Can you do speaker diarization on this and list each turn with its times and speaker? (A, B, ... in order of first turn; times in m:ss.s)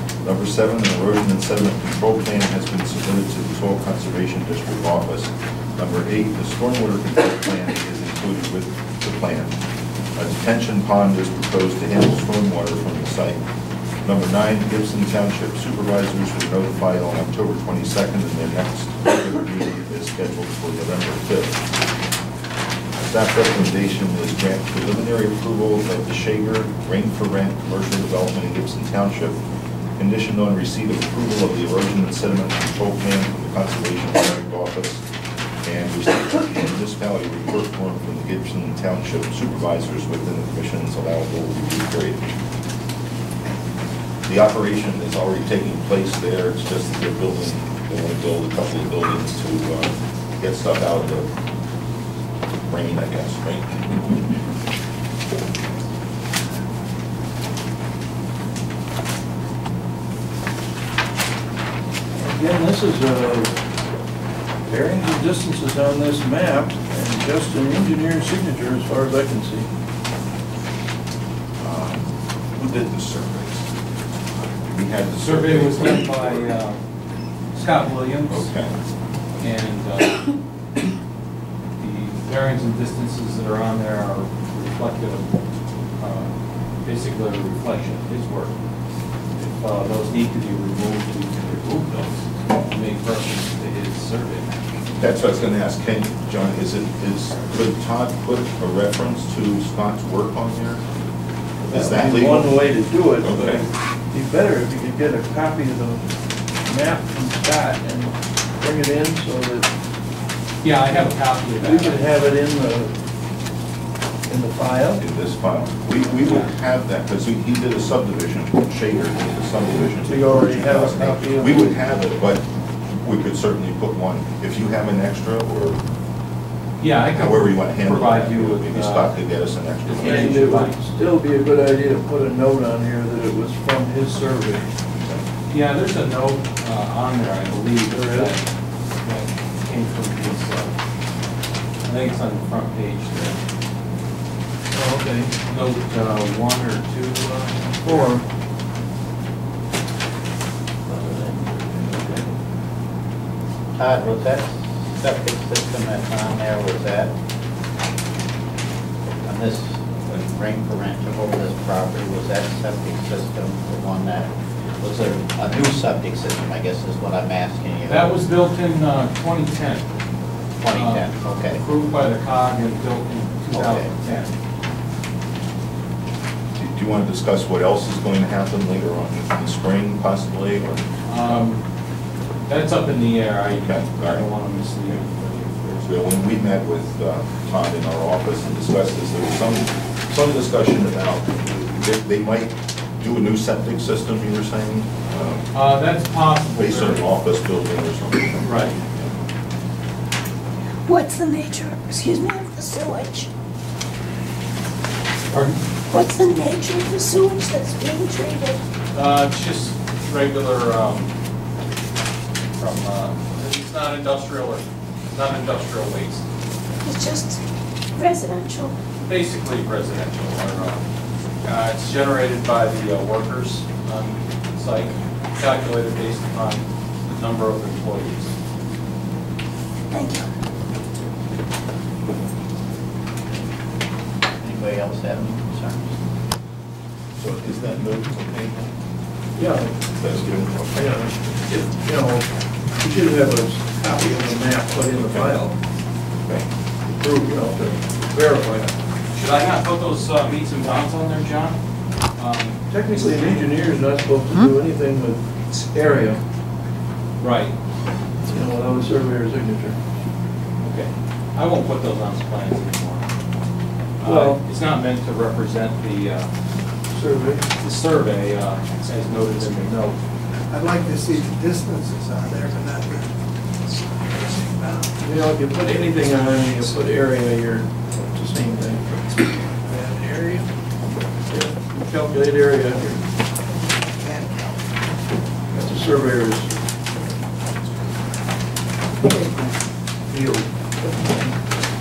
0:00.2-0:09.6 A
0:10.2-0:13.4 A
0:14.0-0:21.6 A
0:23.0-0:29.4 A
0:30.0-0:35.0 A
0:35.6-0:42.3 A
0:44.2-0:51.3 A
0:52.7-0:54.0 A
1:02.2-1:03.6 B
1:04.6-1:09.7 B
1:11.6-1:13.7 A
1:14.6-1:16.3 A
1:15.2-1:16.8 C
1:17.5-1:18.5 C
1:18.3-1:18.8 A
1:19.4-1:20.3 C
1:21.8-1:25.3 C
1:26.0-1:26.3 C
1:26.8-1:28.6 C
1:29.4-1:34.6 C
1:35.0-1:40.8 A
1:41.7-1:46.1 B
1:41.7-1:42.6 A
1:43.2-1:43.6 A
1:46.6-1:49.7 B
1:50.6-1:52.1 C
1:51.6-1:53.0 B
1:54.3-1:55.0 B
1:55.0-2:05.8 A
2:00.0-2:01.8 B
2:06.8-2:09.2 C
2:07.1-2:10.7 A
2:09.8-2:10.8 C
2:10.0-2:14.7 B
2:15.0-2:15.2 A
2:15.5-2:18.4 C
2:17.9-2:18.3 B
2:19.0-2:20.7 C
2:21.8-2:23.4 C
2:24.7-2:25.4 B
2:25.4-2:28.2 C
2:27.8-2:28.2 B
2:30.9-2:32.3 B
2:33.7-2:37.1 D
2:39.2-2:48.2 D
2:47.8-2:49.9 C
2:50.6-2:54.3 C
2:50.6-2:51.6 D
2:53.5-2:54.2 D
2:56.6-3:01.5 A
3:01.1-3:01.6 C
3:02.5-3:06.1 C
3:03.5-3:04.3 A
3:05.9-3:15.5 A
3:15.5-3:17.0 C
3:16.6-3:19.1 A
3:18.4-3:18.7 C
3:20.9-3:23.3 E
3:25.9-3:28.6 E
3:28.9-3:31.1 C
3:32.6-3:36.2 C
3:36.8-3:37.4 E
3:38.0-3:38.8 E
3:39.0-3:40.8 C
3:41.4-3:48.3 C
3:49.9-3:50.3 E
3:54.4-3:55.9 D
3:57.2-3:58.7 A
3:59.4-3:59.7 B
3:59.9-4:00.8 A
4:00.7-4:05.6 B
4:06.8-4:08.8 B
4:09.1-4:11.6 C
4:12.2-4:12.6 C
4:12.7-4:16.2 B
4:17.2-4:17.6 C
4:18.2-4:19.8 B
4:20.6-4:23.1 C
4:24.0-4:26.3 C
4:24.0-4:24.4 B
4:26.9-4:27.5 B
4:27.6-4:30.0 C
4:30.5-4:33.1 F
4:34.2-4:34.9 F
4:35.0-4:39.2 B
4:39.8-4:40.4 F
4:41.3-4:43.0 B
4:45.5-4:46.5 B
4:50.1-4:51.4 B